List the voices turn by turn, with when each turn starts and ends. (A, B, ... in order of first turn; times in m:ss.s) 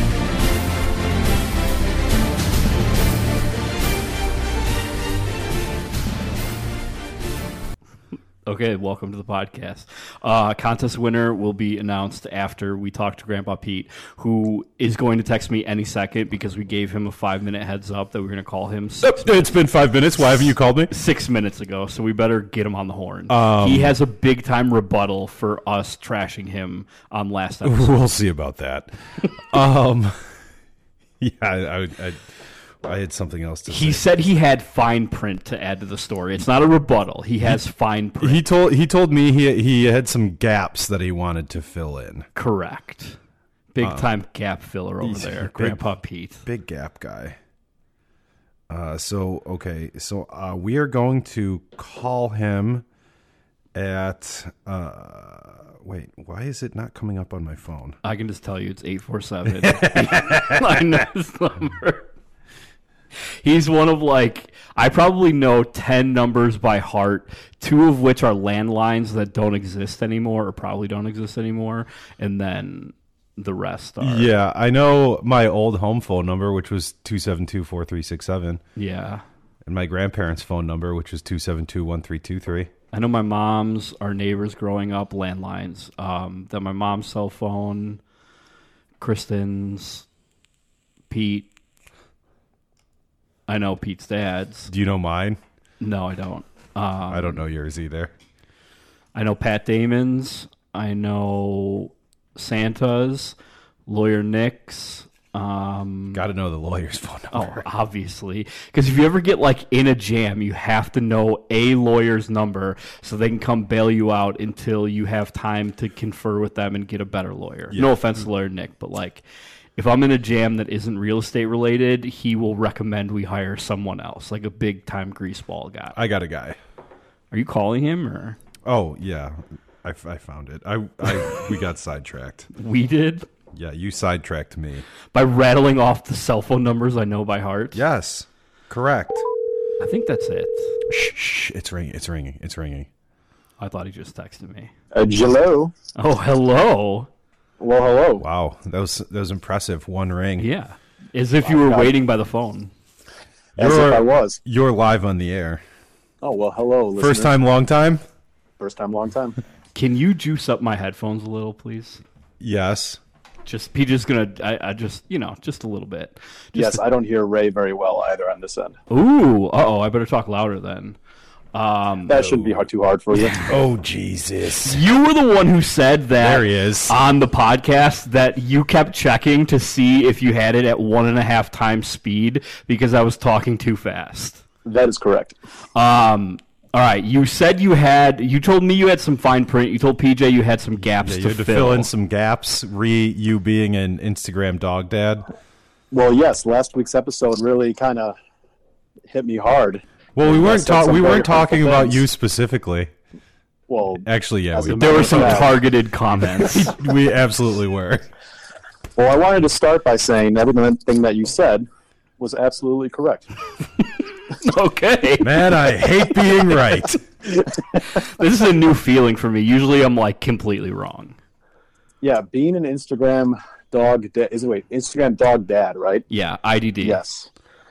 0:08.4-0:19.3 A
0:19.0-0:20.9 B
0:20.9-0:28.0 A
0:23.3-0:23.9 B
0:27.6-0:30.2 B
0:31.2-0:32.2 B
0:32.8-0:34.0 B
0:33.7-0:38.4 A
0:38.2-0:42.3 B
0:42.3-0:43.2 A
0:43.7-0:46.4 A
0:43.8-0:44.1 B
0:45.0-0:45.8 B
0:46.4-0:47.4 B
0:48.7-0:52.8 B
0:53.7-0:58.0 B
0:58.0-1:02.1 A
0:59.6-1:00.8 B
1:03.4-1:14.3 A
1:14.0-1:18.6 B
1:18.8-1:19.2 A
1:19.6-1:22.7 B
1:22.9-1:28.0 A
1:29.0-1:30.0 A
1:31.1-1:31.5 A
1:33.5-1:34.7 A
1:34.7-1:35.4 B
1:35.8-1:37.4 A
1:37.1-1:38.1 B
1:39.1-1:43.4 A
1:43.9-1:46.2 A
1:46.1-1:47.6 B
1:47.3-1:59.2 A
1:57.7-1:58.2 B
1:59.8-2:06.0 A
2:05.9-2:06.6 B
2:07.3-2:08.4 A
2:08.6-2:12.5 B
2:12.5-2:13.3 A
2:13.5-2:14.8 B
2:15.1-2:17.8 A
2:17.7-2:19.2 B
2:19.8-2:20.8 A
2:20.9-2:22.9 B
2:23.6-2:24.7 A
2:24.9-2:25.7 C
2:26.0-2:27.1 A
2:27.6-2:28.2 C
2:28.2-2:30.5 B
2:30.4-2:32.7 A
2:31.4-2:31.9 C
2:33.6-2:35.6 B
2:33.6-2:34.4 C
2:36.2-2:37.3 C
2:37.0-2:38.0 B
2:38.6-2:39.4 C
2:39.7-2:42.0 A
2:42.4-2:43.0 B
2:43.4-2:46.8 A
2:46.5-2:48.8 C
2:48.9-2:51.0 A
2:51.5-2:52.3 A
2:52.1-2:53.5 C
2:53.5-2:54.8 B
2:54.6-3:04.4 A
2:56.2-2:56.9 B
3:04.6-3:05.4 C
3:05.7-3:11.9 A
3:11.0-3:15.2 B
3:15.9-3:18.2 C
3:19.1-3:22.0 C
3:20.2-3:22.9 B
3:23.7-3:25.6 C
3:24.0-3:25.5 B
3:24.7-3:26.7 A
3:26.4-3:28.1 B
3:29.0-3:31.6 C
3:32.2-3:33.3 C
3:34.4-3:35.4 A
3:35.2-3:37.0 B
3:37.8-3:41.2 A
3:42.0-3:46.0 C
3:46.1-3:47.0 A
3:46.8-3:47.3 C